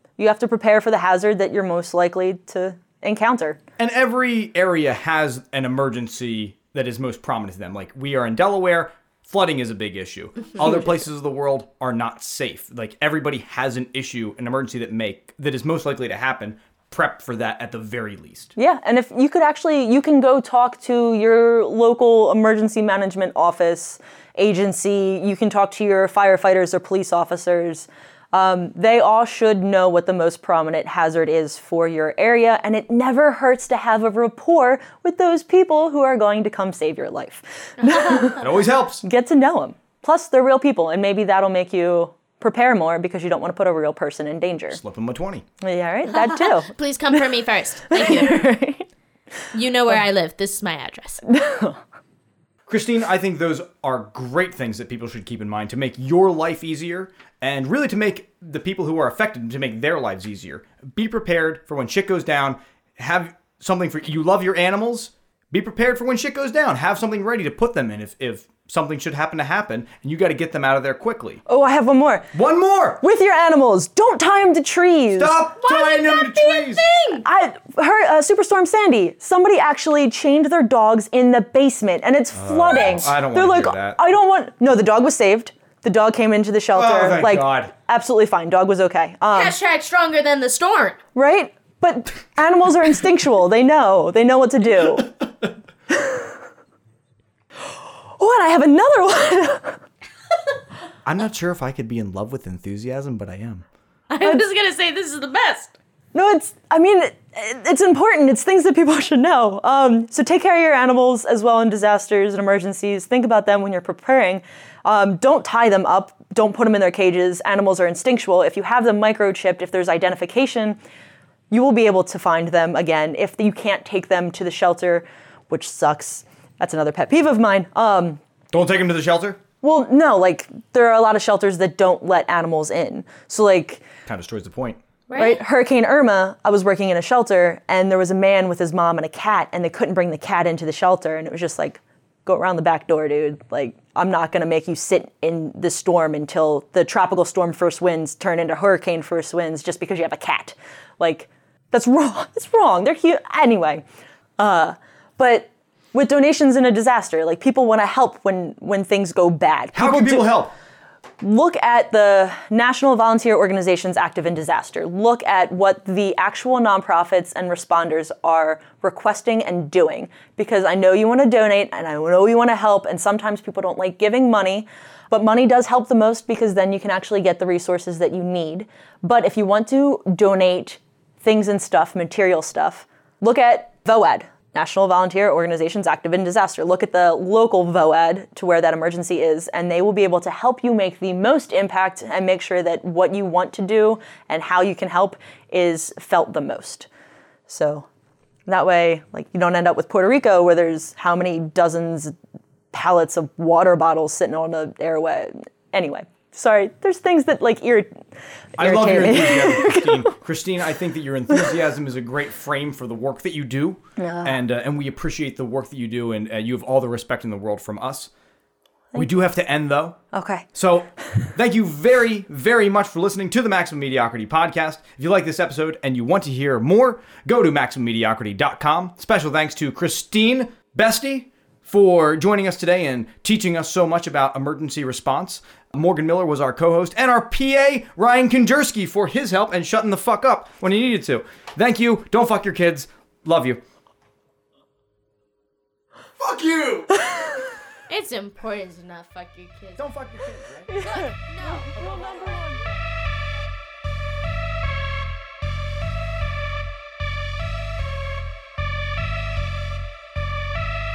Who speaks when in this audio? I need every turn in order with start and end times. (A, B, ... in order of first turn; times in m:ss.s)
0:00.2-0:03.6 A
0:03.8-0:18.5 B
0:18.6-0:44.8 A
0:37.8-0:38.3 C
0:38.4-0:39.0 B
0:44.7-0:45.5 B
0:45.6-0:46.7 A
0:46.2-0:48.5 C
0:47.9-0:48.9 A
0:49.5-0:51.2 C
0:51.3-0:51.8 A
0:52.7-1:11.4 B
1:11.5-1:12.3 A
1:12.3-1:13.0 B
1:13.0-1:15.4 A
1:15.2-1:16.9 B
1:15.6-1:17.2 C
1:17.2-1:29.6 A
1:22.3-1:24.0 B
1:26.7-1:27.7 B
1:29.3-1:31.0 C
1:31.2-1:35.1 A
1:35.9-1:36.4 A
1:37.6-1:39.8 A
1:41.0-1:43.6 B
1:44.1-1:45.7 C
1:46.1-2:00.8 A
2:01.5-2:08.2 A
2:08.5-2:09.4 B
2:09.6-2:13.9 A
2:14.1-2:14.8 B
2:15.1-2:15.4 C
2:15.2-2:33.8 A
2:34.4-2:40.4 A
2:39.8-2:40.5 B
2:41.2-3:16.9 A
3:17.5-3:17.9 A
3:18.5-3:22.2 A
3:22.7-3:27.9 A
3:28.6-3:30.1 A
3:28.6-3:38.1 B
3:34.0-3:34.4 A
3:39.0-3:40.0 B
3:40.1-3:40.5 A
3:40.6-4:03.6 B
4:06.2-4:07.0 B
4:07.9-4:09.8 C
4:09.8-4:10.8 B
4:10.8-4:12.6 A
4:10.8-4:12.8 C